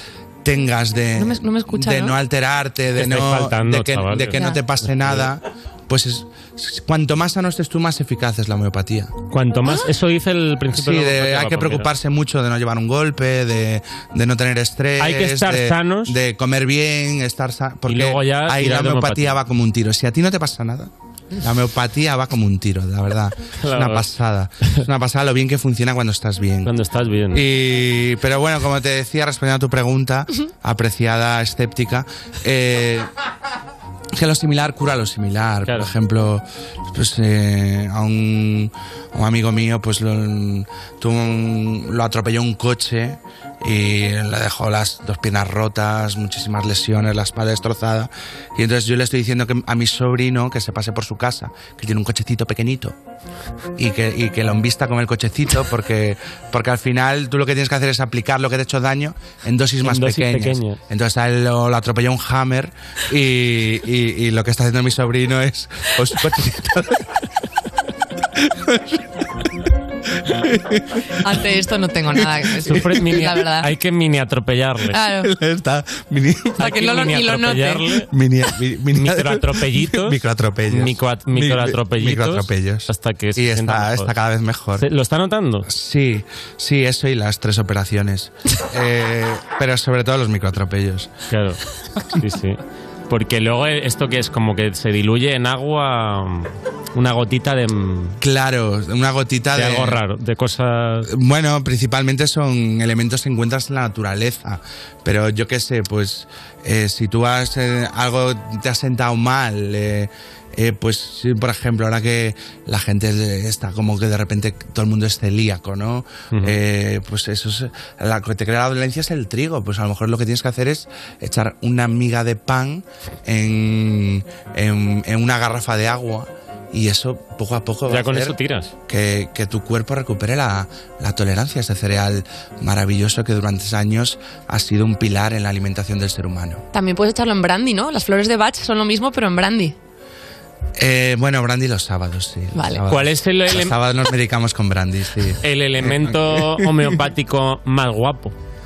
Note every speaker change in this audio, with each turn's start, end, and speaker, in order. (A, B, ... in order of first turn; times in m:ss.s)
0:00.4-0:09.1 A
0:01.2-0:02.2 B
0:03.0-0:05.3 C
0:04.3-0:04.6 B
0:09.3-0:11.9 C
0:10.7-0:26.7 A
0:15.0-0:16.2 C
0:17.9-0:19.4 C
0:23.6-0:24.0 C
0:26.6-0:27.4 C
0:27.3-0:33.1 A
0:34.1-0:52.9 A
0:35.6-0:35.9 C
0:53.8-1:07.0 A
0:59.8-1:00.8 C
1:11.2-1:13.7 B
1:12.6-1:15.0 C
1:12.7-1:13.2 A
1:14.9-1:15.3 B
1:15.2-1:16.8 A
1:16.6-1:18.1 C
1:16.6-1:17.9 B
1:18.1-1:24.9 A
1:18.9-1:20.2 C
1:20.7-1:24.1 C
1:24.8-1:25.7 C
1:25.6-1:31.1 A
1:31.3-1:31.6 C
1:32.1-1:38.2 C
1:38.2-1:40.0 A
1:39.5-1:41.1 C
1:41.0-2:16.6 A
1:56.3-1:56.6 C
2:07.9-2:08.7 C
2:16.7-2:19.7 B
2:20.8-2:26.7 A
2:22.5-2:22.8 B
2:22.9-2:23.8 C
2:25.4-2:28.3 C